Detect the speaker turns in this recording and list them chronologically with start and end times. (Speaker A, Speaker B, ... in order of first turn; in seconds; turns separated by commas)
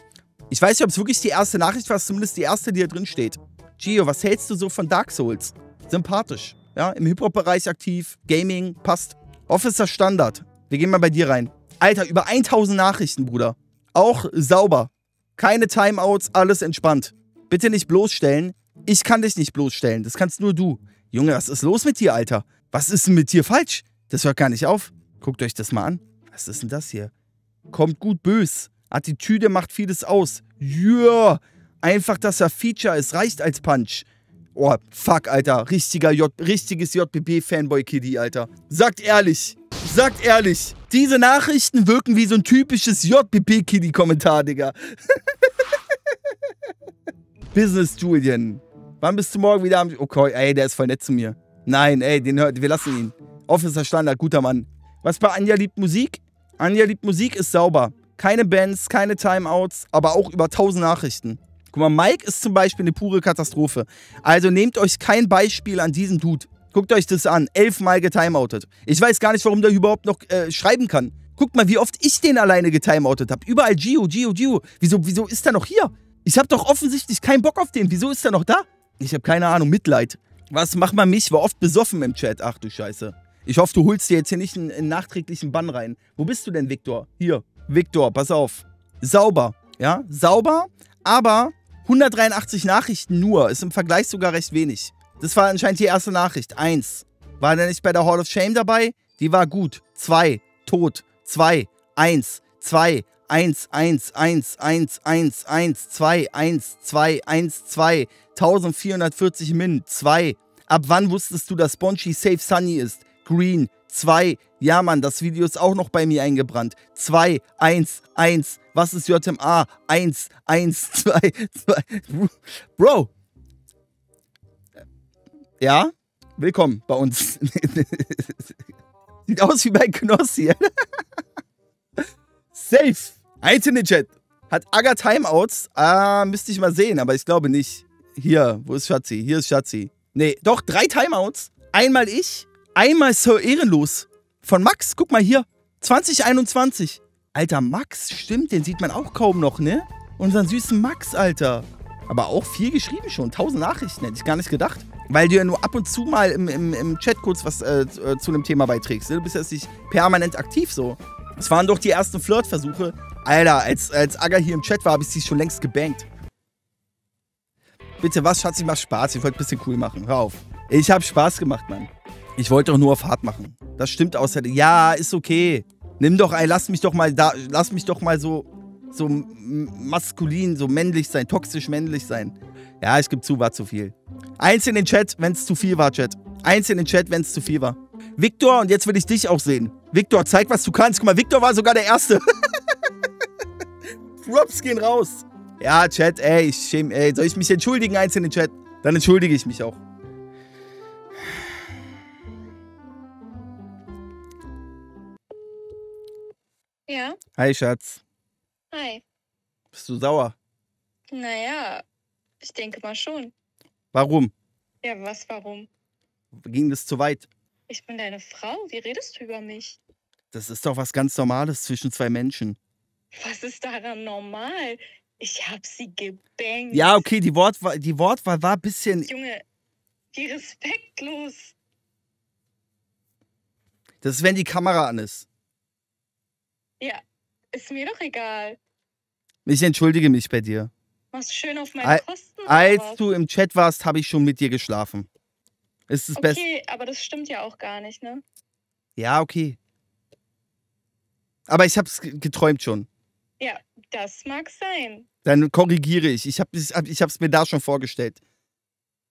Speaker A: 0.5-27.1, Speaker A: 27.7-45.2, Speaker A: 47.5-123.1, Speaker A: 125.6-128.6, Speaker A: 129.3-130.7, Speaker A: 132.5-166.1, Speaker A: 168.0-192.2, Speaker A: 194.2-199.8, Speaker B: 206.9-207.2, Speaker A: 207.4-208.0, Speaker B: 208.7-209.0, Speaker A: 209.7-210.4, Speaker B: 211.1-211.9, Speaker B: 212.4-213.3, Speaker A: 213.9-214.3, Speaker B: 214.8-215.7, Speaker A: 216.3-217.3, Speaker B: 217.7-219.8, Speaker A: 220.3-222.6, Speaker B: 223.2-227.1, Speaker A: 226.7-229.1, Speaker B: 229.1-229.4, Speaker B: 230.1-231.6, Speaker A: 234.0-235.3, Speaker B: 236.8-238.6, Speaker A: 239.4-240.7, Speaker B: 241.1-243.1, Speaker A: 241.8-245.1, Speaker A: 245.9-246.4, Speaker B: 246.2-248.2, Speaker A: 249.0-249.6, Speaker A: 251.5-252.9, Speaker B: 253.4-255.1, Speaker A: 255.2-258.2